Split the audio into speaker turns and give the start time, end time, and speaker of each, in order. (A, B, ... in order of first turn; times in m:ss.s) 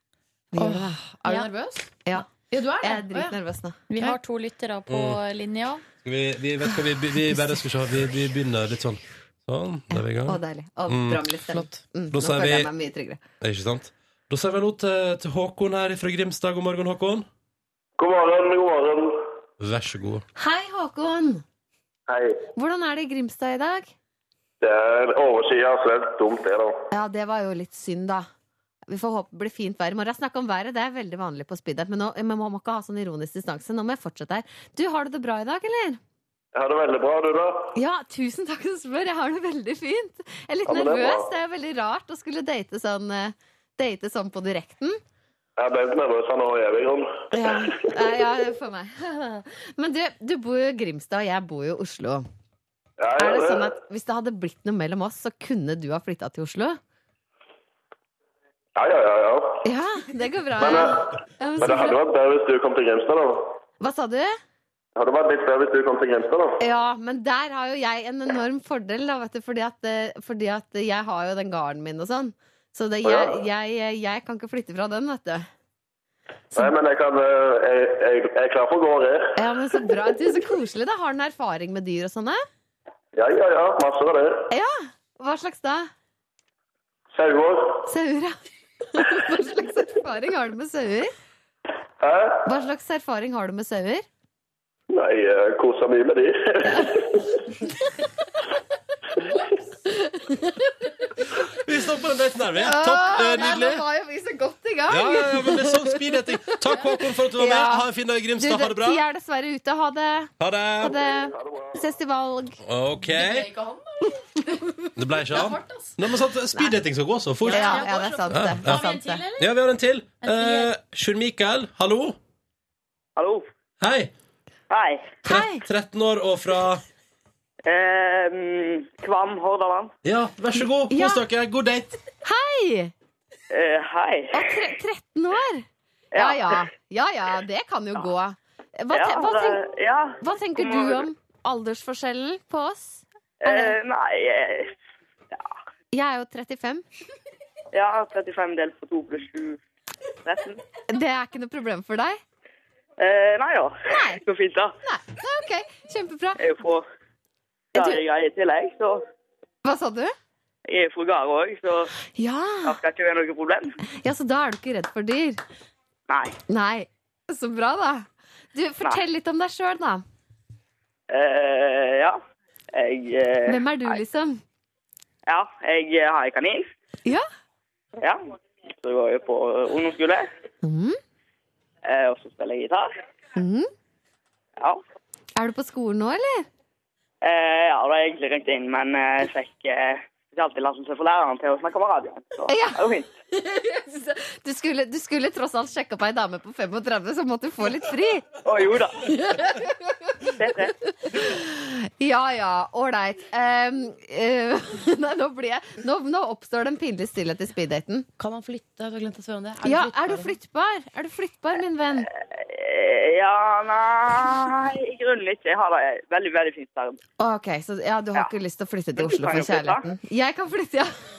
0:00.5-0:01.4 A
0:00.6-0:03.4 B
0:02.8-0:03.8 A
0:03.9-0:05.8 C
0:04.9-0:05.2 D
0:06.0-0:11.2 D
0:09.9-0:13.2 A
0:11.5-0:11.8 B
0:12.1-0:12.7 D
0:13.4-0:17.3 D
0:18.0-0:19.2 E
0:19.6-0:20.2 D
0:20.4-0:21.4 A
0:22.1-0:22.5 E
0:22.6-0:23.9 A
0:24.6-0:26.8 E
0:26.9-0:28.3 A
0:28.9-0:36.0 A
0:36.6-0:37.7 E
0:37.8-0:45.0 A
0:40.7-0:41.3 E
0:45.6-0:48.0 E
0:47.3-0:52.3 A
0:53.0-0:53.7 E
0:53.2-0:56.8 A
0:58.8-0:59.6 E
0:59.6-1:02.0 A
1:00.6-1:03.6 E
1:03.8-1:04.4 A
1:05.0-1:06.6 E
1:06.6-1:15.5 A
1:13.0-1:13.4 E
1:16.6-1:19.9 E
1:19.4-1:22.4 A
1:23.2-1:24.5 E
1:24.5-1:25.9 A
1:27.1-1:27.9 E
1:27.9-1:28.4 A
1:28.9-1:31.1 A
1:32.0-1:32.4 E
1:32.5-1:34.1 A
1:34.9-1:37.4 E
1:39.9-1:40.7 A
1:41.5-1:43.8 D
1:42.6-1:47.9 A
1:44.9-1:49.0 D
1:48.4-1:52.6 A
1:50.4-1:51.0 D
1:51.2-1:51.8 E
1:52.6-1:53.5 D
1:53.0-1:54.2 B
1:55.0-1:57.8 D
1:55.3-1:55.9 B
1:57.5-1:59.2 A
1:57.5-1:59.5 C
1:57.5-1:58.2 B
1:58.3-1:58.8 D
1:59.4-2:02.2 D
2:00.2-2:00.7 C
2:03.2-2:03.5 F
2:03.8-2:04.1 D
2:04.7-2:05.2 F
2:05.2-2:05.6 A
2:05.3-2:06.8 D
2:07.7-2:09.9 F
2:10.0-2:12.0 D
2:10.9-2:11.2 A
2:12.2-2:12.9 A
2:13.5-2:14.4 F
2:14.3-2:19.6 A
2:16.1-2:16.6 F
2:18.9-2:21.0 F
2:20.2-2:23.8 A
2:23.4-2:24.8 F
2:25.9-2:26.8 A
2:27.7-2:29.6 F
2:30.2-2:30.6 F
2:30.9-2:32.2 A
2:33.0-2:34.8 F
2:33.9-2:34.2 A
2:34.8-2:36.5 A
2:36.4-2:36.8 F
2:37.8-2:38.0 A
2:37.8-2:39.0 F
2:39.6-2:40.2 A
2:40.7-2:41.9 F
2:42.1-2:42.8 A
2:42.7-2:43.8 F
2:43.9-2:45.4 A
2:46.1-2:46.4 F
2:46.5-2:50.0 A
2:51.1-2:52.2 F
2:52.7-2:54.0 F
2:53.5-2:54.4 A
2:55.3-2:56.7 F
2:58.0-3:00.3 F
3:00.6-3:01.0 A
3:01.8-3:02.9 F
3:03.4-3:03.7 A
3:04.6-3:04.8 F
3:05.4-3:06.5 A
3:07.2-3:13.1 F
3:12.5-3:18.3 A
3:18.4-3:19.1 F
3:19.2-3:20.3 A
3:20.4-3:20.7 F
3:21.1-3:28.1 A
3:28.2-3:30.4 B
3:29.6-3:32.1 A
3:32.3-3:37.0 F
3:37.2-3:40.9 A
3:39.0-3:39.8 F